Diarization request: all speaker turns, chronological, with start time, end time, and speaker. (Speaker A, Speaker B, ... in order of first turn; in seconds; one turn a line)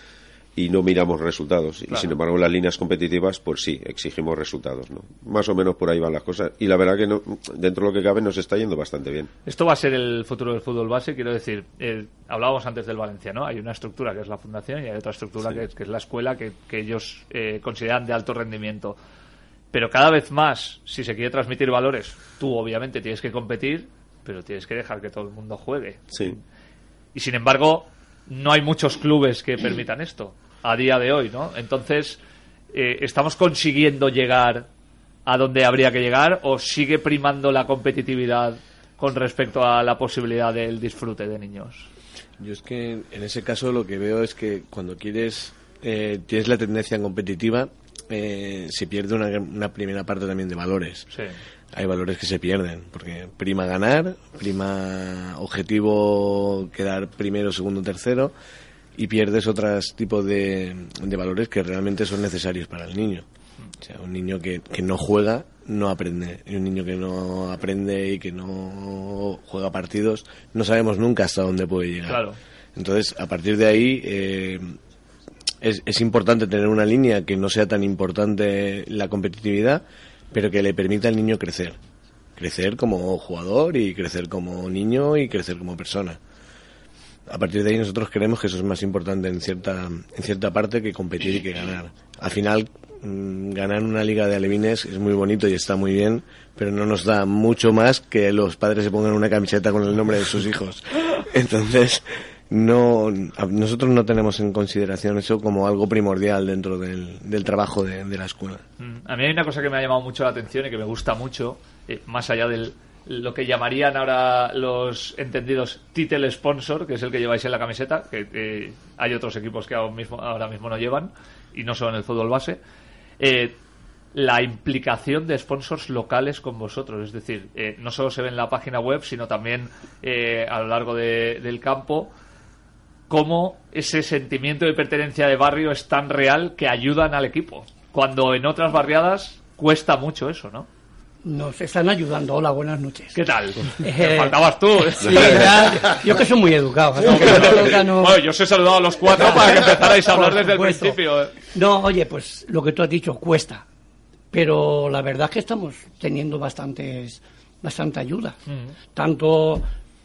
Speaker A: 0.6-9.3
Speaker B: 9.5-19.0
Speaker B: 19.7-26.4
Speaker B: 27.1-32.2
Speaker B: 32.7-34.7
Speaker B: 35.3-41.9
Speaker C: 42.4-51.1
Speaker C: 51.7-58.3
Speaker C: 59.0-63.3
Speaker C: 63.8-74.8
Speaker B: 72.1-72.4
Speaker C: 75.6-81.8
Speaker C: 82.4-86.2
Speaker C: 87.3-108.6
Speaker B: 108.8-122.6
Speaker B: 123.2-123.5
Speaker B: 124.1-132.1
Speaker B: 133.1-140.7
Speaker D: 141.2-143.2
Speaker B: 143.1-145.4
Speaker D: 143.8-144.4
Speaker D: 144.9-148.2
Speaker B: 147.0-151.3
Speaker D: 149.2-151.0
Speaker D: 151.5-153.6
Speaker D: 154.3-158.4
Speaker B: 158.5-158.8
Speaker D: 158.9-159.7